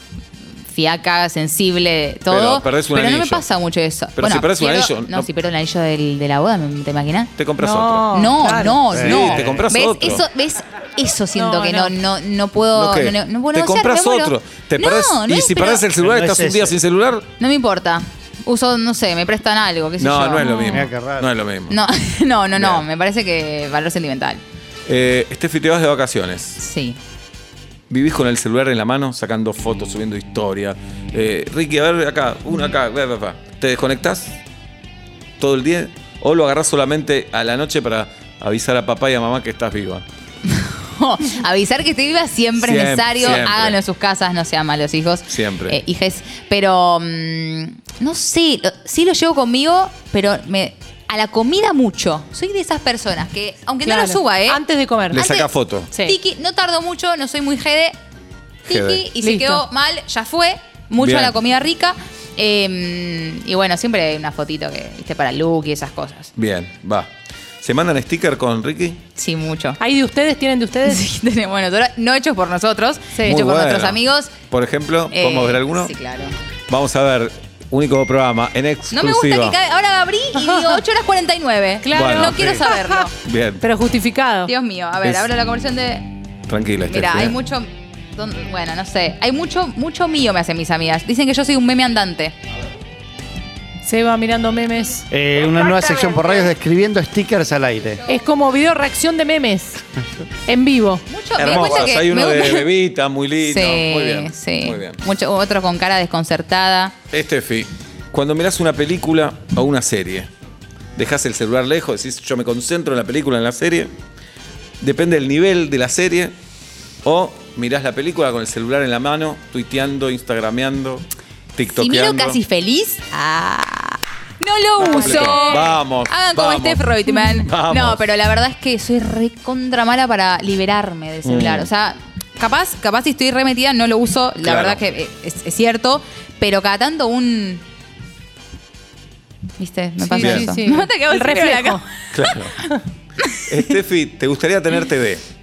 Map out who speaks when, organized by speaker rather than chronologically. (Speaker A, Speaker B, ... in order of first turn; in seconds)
Speaker A: 0.7-7.3, 8.1-15.9, 17.4-20.9, 21.7-24.4, 26.6-27.0, 40.5-54.6, 55.1-58.0, 58.7-66.3, 69.2-69.8, 70.8-74.3, 75.1-76.3, 78.9-83.1, 84.5-86.1, 86.8-92.3, 95.4-96.5, 101.1-102.7, 103.4-107.0, 121.7-137.6, 139.6-141.8, 143.2-143.5
Speaker B: 2.3-3.4, 4.2-5.3, 7.4-8.2, 8.9-10.2, 12.8-17.3, 20.0-21.8, 22.6-22.8, 24.9-26.6, 27.9-34.4, 35.4-40.0, 42.6-43.8, 45.3-45.8, 55.1-55.9, 58.7-59.0, 61.0-61.4, 66.4-67.1, 67.6-69.0, 73.3-75.9, 76.7-79.6, 81.9-83.6, 85.0-85.3, 86.5-87.4, 101.4-105.0, 107.1-110.3, 111.0-113.9, 114.8-116.3, 117.0-121.0, 121.5-122.4, 124.8-128.0, 131.2-131.7, 134.4-134.8, 140.2-140.5, 142.1-142.6, 143.5-145.2
Speaker C: 7.6-8.8, 11.4-11.9, 53.9-55.3, 59.2-59.6, 69.8-71.0, 80.4-80.8, 81.8-83.1, 83.6-84.5, 93.8-95.1, 98.1-99.8, 100.5-101.0, 125.1-125.6, 140.0-141.8
Speaker D: 8.9-9.6, 16.0-16.8, 20.7-21.3, 95.1-98.0, 101.5-101.8